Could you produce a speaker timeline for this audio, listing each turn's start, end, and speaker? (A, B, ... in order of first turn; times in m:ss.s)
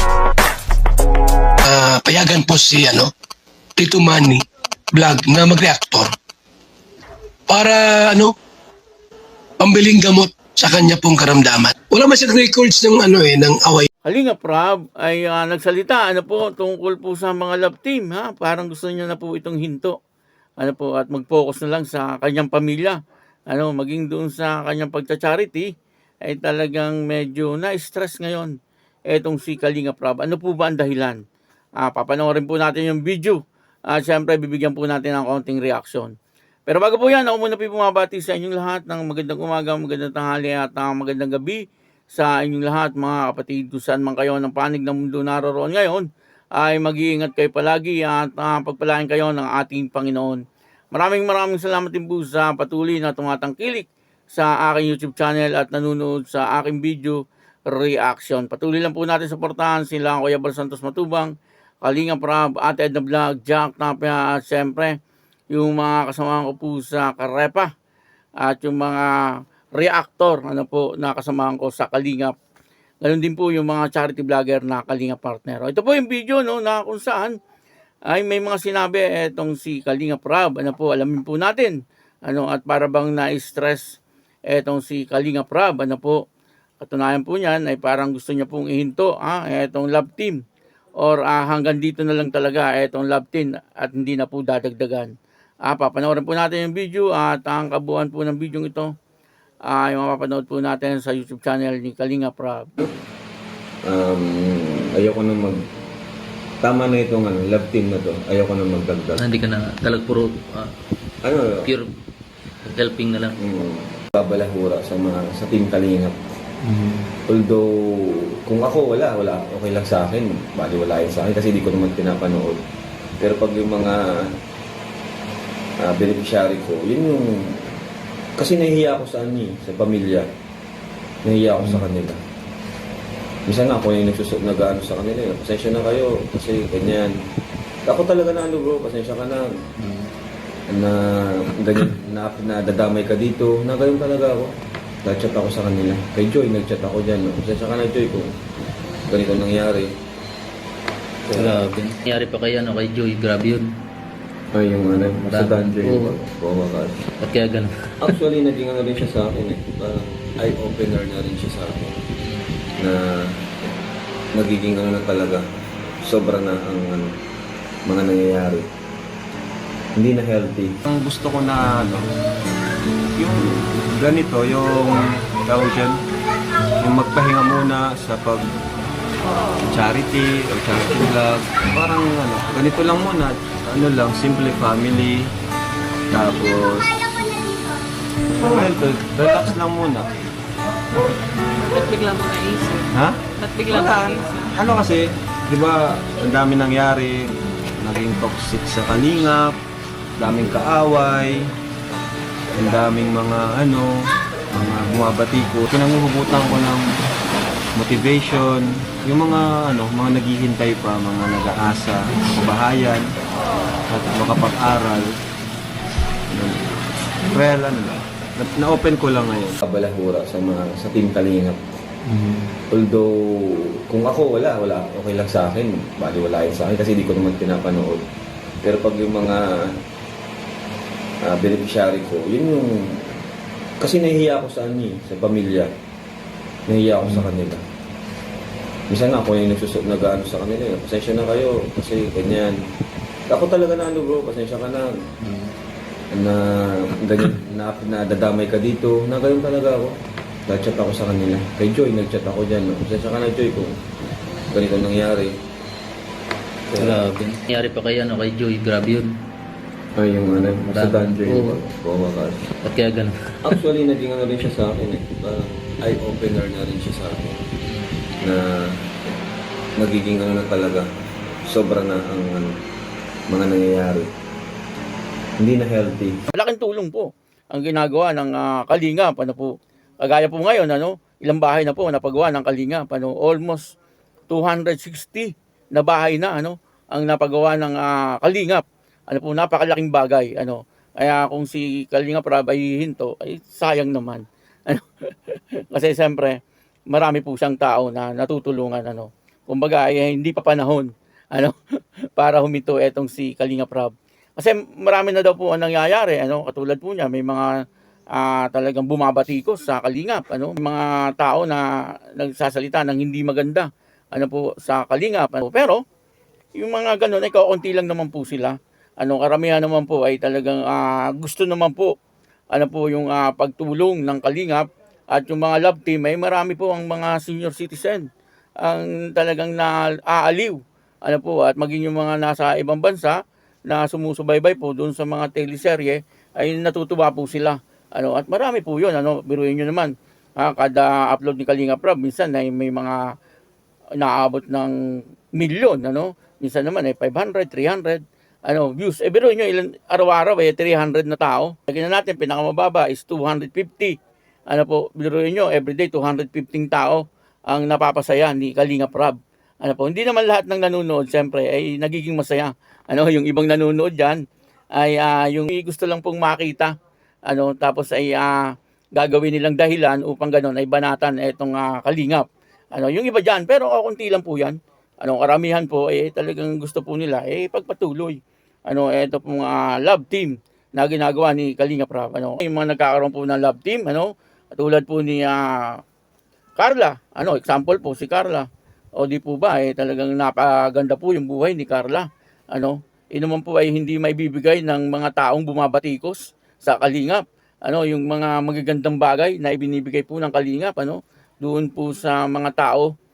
0:01.7-0:03.1 A
0:03.8-0:06.1 A
0:07.5-0:08.3 A
0:09.6-0:13.9 A
0:14.1-0:20.0 B
0:20.6-0:25.7 B
0:26.2-0:28.5 B
0:29.1-0:31.2 B
0:31.8-0:33.4 B
0:33.9-0:36.1 B
0:36.7-0:41.6 B
0:42.1-0:46.1 B
0:46.6-0:50.4 B
0:50.9-1:05.0 B
1:05.5-1:07.7 B
1:08.4-1:12.4 B
1:13.0-1:17.4 B
1:18.1-1:24.0 B
1:24.5-1:26.2 B
1:26.8-1:30.4 B
1:31.0-1:35.1 B
1:35.6-1:38.9 B
1:39.7-1:42.7 B
1:43.9-1:45.6 C
1:46.6-1:49.3 C
1:49.2-1:50.7 D
1:51.2-1:51.7 C
1:51.6-1:51.9 D
1:52.6-1:53.4 D
1:53.4-1:56.2 C
1:56.6-1:57.1 D
1:57.3-2:02.6 C
2:03.2-2:04.3 C
2:05.8-2:07.6 C
2:08.4-2:10.3 C
2:11.2-2:12.2 C
2:13.5-2:17.1 C
2:17.9-2:19.5 C
2:20.7-2:28.3 C
2:29.1-2:29.9 C
2:31.3-2:31.6 C
2:31.3-2:33.7 D
2:34.5-2:37.0 C
2:35.2-2:36.2 D
2:37.2-2:38.2 D
2:38.0-2:42.0 C
2:42.8-2:43.4 C
2:44.4-2:45.4 C
2:46.0-2:47.1 C
2:47.9-2:48.7 C
2:50.0-2:50.8 C
2:50.9-2:52.0 E
2:53.2-2:55.9 E
2:56.8-2:58.4 E
2:59.6-3:05.3 E
3:06.1-3:06.9 E
3:08.4-3:10.1 E
3:11.6-3:14.5 F
3:12.9-3:19.6 E
3:20.2-3:21.5 E
3:22.6-3:23.9 E
3:24.5-3:26.8 E
3:27.8-3:33.0 E
3:33.9-3:35.2 E
3:36.3-3:36.7 E
3:37.3-3:39.6 E
3:39.6-3:41.6 C
3:42.1-3:42.5 D
3:42.7-3:48.0 C
3:48.6-3:49.7 C
3:51.2-3:53.1 C
3:53.8-3:55.7 C
3:56.7-3:57.6 C
3:58.9-4:02.6 C
4:03.3-4:04.9 C
4:05.2-4:05.5 D
4:06.1-4:13.8 C
4:14.5-4:15.4 C
4:16.7-4:19.1 D
4:16.8-4:17.0 C
4:20.0-4:22.5 C
4:20.7-4:21.6 D
4:22.6-4:23.5 D
4:23.4-4:27.4 C
4:28.2-4:28.8 C
4:29.8-4:30.9 C
4:31.5-4:32.6 C
4:33.3-4:34.1 C
4:35.4-4:36.2 C
4:36.3-4:43.7 B
4:44.3-4:56.4 B
4:56.9-5:01.6 B
5:02.2-5:07.5 B
5:08.2-5:15.8 B
5:16.6-5:21.9 B
5:22.5-5:28.1 B
5:28.6-5:43.0 B
5:44.0-5:44.8 B
5:45.3-5:54.0 B
5:54.5-6:04.2 B
6:04.8-6:06.7 B
6:07.3-6:08.4 B
6:09.0-6:25.8 B
6:26.6-6:42.9 B